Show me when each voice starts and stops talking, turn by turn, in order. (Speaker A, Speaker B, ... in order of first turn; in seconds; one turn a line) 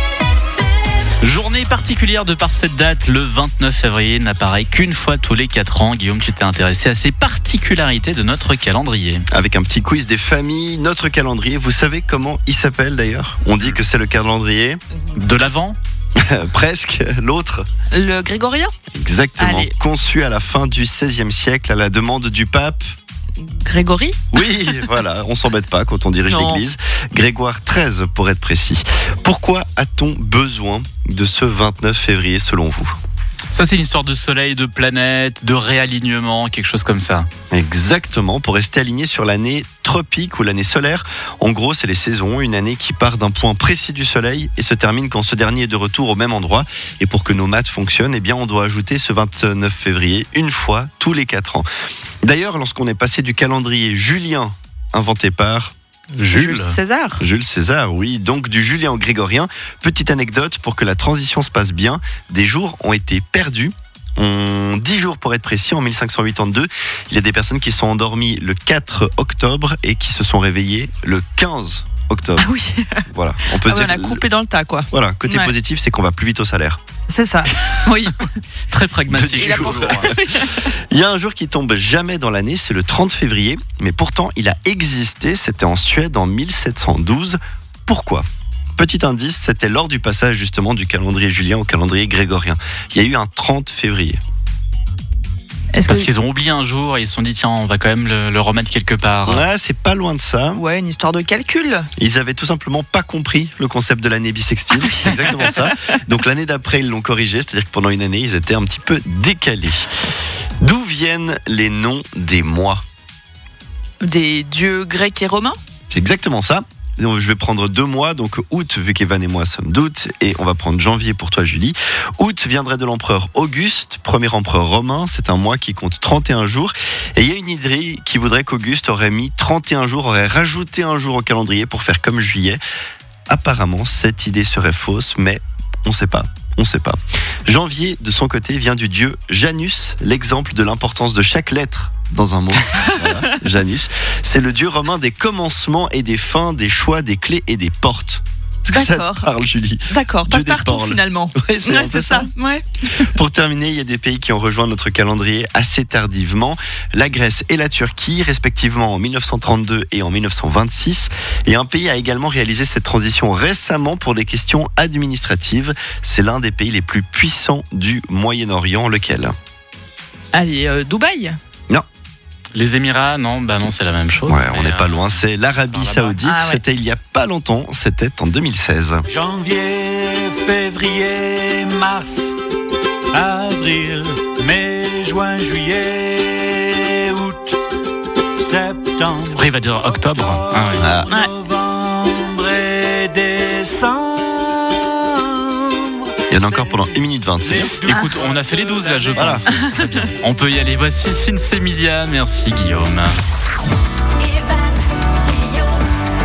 Speaker A: 1.2-9.2
Speaker B: 9.3-14.8
Speaker A: 15.2-15.8
Speaker B: 16.2-17.6
Speaker C: 17.9-18.7
Speaker B: 18.9-22.8
Speaker C: 19.4-19.7
Speaker C: 23.5-24.2
Speaker B: 24.3-32.9
Speaker C: 26.3-26.6
Speaker A: 33.5-37.3
Speaker B: 37.5-51.7
Speaker B: 52.2-55.7
Speaker A: 56.1-56.8
Speaker C: 56.3-57.2
Speaker B: 57.2-72.5
Speaker C: 72.4-75.5
Speaker B: 73.1-74.2
Speaker B: 74.9-76.8
Speaker C: 77.1-78.2
Speaker A: 78.7-80.2
Speaker B: 79.1-88.2
Speaker C: 79.3-80.7
Speaker B: 88.8-94.2
Speaker C: 95.7-96.1
Speaker A: 95.8-99.5
Speaker B: 99.2-100.6
Speaker C: 100.5-101.9
Speaker B: 102.0-109.9
Speaker C: 104.7-105.8
Speaker B: 110.6-112.8
Speaker C: 114.0-115.6
Speaker B: 115.9-132.6
Speaker B: 133.3-152.3
Speaker C: 142.8-143.1
Speaker C: 148.7-149.3
Speaker C: 149.9-152.9
Speaker B: 153.0-169.3
Speaker C: 170.3-171.4
Speaker A: 172.5-176.2
Speaker B: 174.2-179.1
Speaker C: 176.2-176.6
Speaker D: 179.1-182.3
Speaker D: 183.1-187.6
Speaker D: 188.4-199.4
Speaker A: 189.3-190.9
Speaker B: 190.8-191.1
Speaker B: 196.3-197.8
Speaker A: 197.9-203.2
Speaker B: 199.2-199.4
Speaker C: 199.5-199.8